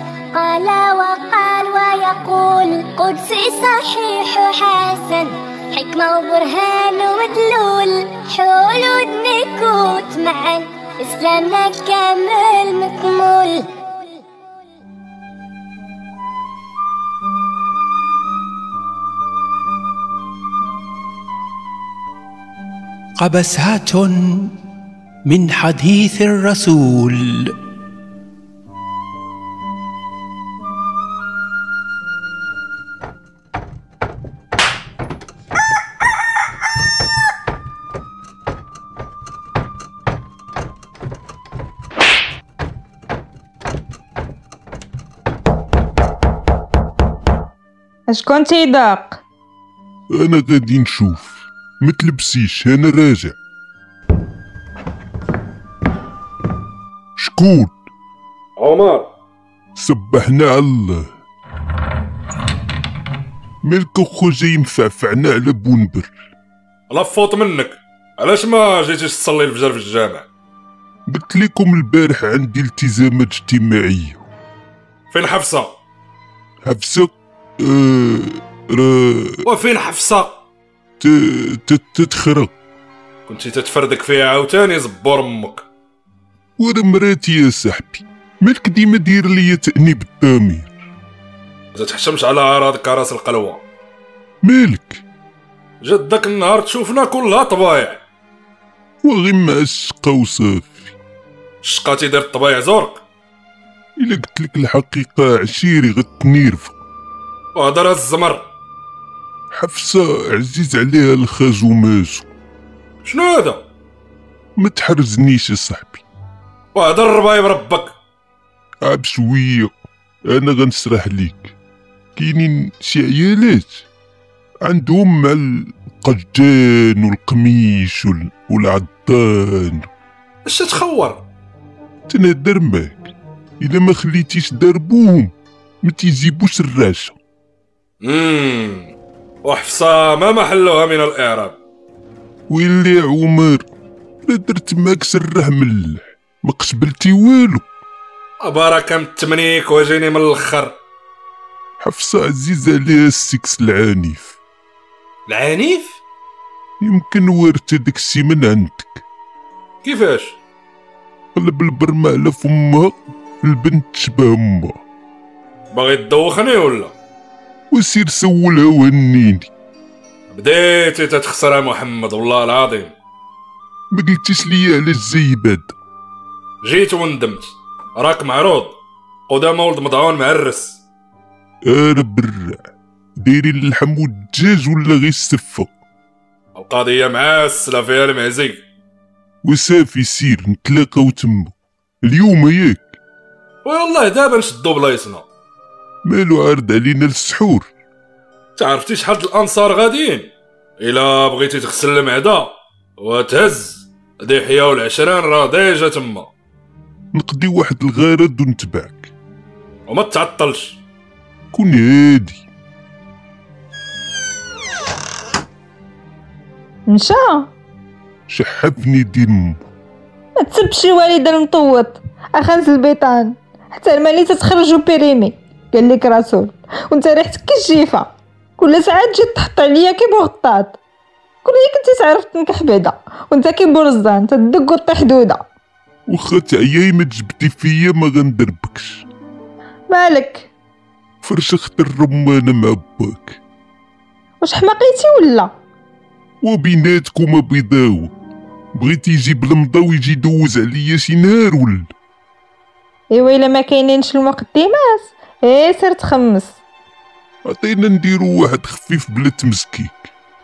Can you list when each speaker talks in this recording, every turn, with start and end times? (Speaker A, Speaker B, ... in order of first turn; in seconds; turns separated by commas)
Speaker A: 0.3-13.7, Speaker B: 23.2-24.6, Speaker B: 25.2-27.5, Speaker C: 48.1-49.2, Speaker D: 50.1-53.3, Speaker D: 57.2-57.7, Speaker E: 58.6-59.1, Speaker D: 59.7-61.1, Speaker D: 63.6-66.1, Speaker E: 66.9-70.2, Speaker D: 71.1-74.2, Speaker E: 75.1-75.7, Speaker D: 76.6-79.4, Speaker E: 79.4-80.4, Speaker D: 81.0-82.5, Speaker E: 83.3-85.6, Speaker D: 86.6-90.8, Speaker E: 91.7-93.6, Speaker D: 94.4-95.0, Speaker E: 95.8-98.0, Speaker D: 99.0-100.9, Speaker E: 101.6-103.0, Speaker D: 104.0-106.7, Speaker E: 107.5-108.4, Speaker D: 109.5-112.3, Speaker E: 113.0-113.6, Speaker D: 114.6-116.0, Speaker E: 116.7-117.9, Speaker D: 118.8-119.7, Speaker D: 120.2-121.5, Speaker D: 122.2-123.8, Speaker D: 124.6-129.9, Speaker E: 130.4-131.2, Speaker D: 132.1-133.1, Speaker D: 133.6-137.2, Speaker E: 138.0-138.9, Speaker E: 139.4-141.6, Speaker D: 142.5-143.6, Speaker D: 144.2-147.7, Speaker E: 148.4-150.7, Speaker D: 151.8-154.3, Speaker E: 155.3-155.9, Speaker D: 156.8-159.0, Speaker E: 159.8-160.3, Speaker D: 161.3-164.8, Speaker E: 165.7-166.9, Speaker D: 167.7-169.5, Speaker E: 170.3-172.9, Speaker D: 173.9-175.7, Speaker E: 176.6-178.7, Speaker E: 179.3-180.8, Speaker D: 181.7-182.6, Speaker D: 183.2-185.7, Speaker E: 186.6-188.6, Speaker D: 189.4-193.0, Speaker E: 193.6-195.2, Speaker D: 196.0-197.7, Speaker E: 198.6-200.3, Speaker E: 200.8-206.3, Speaker D: 207.1-209.1, Speaker E: 209.9-210.8, Speaker D: 211.5-212.4, Speaker C: 216.9-217.5, Speaker D: 218.3-219.6, Speaker C: 220.4-230.8, Speaker C: 231.4-235.4, Speaker D: 236.1-239.0, Speaker C: 239.9-240.5, Speaker D: 241.2-243.4, Speaker C: 244.4-245.5, Speaker D: 246.4-248.1, Speaker D: 248.8-251.9, Speaker C: 253.1-256.5, Speaker D: 257.4-260.1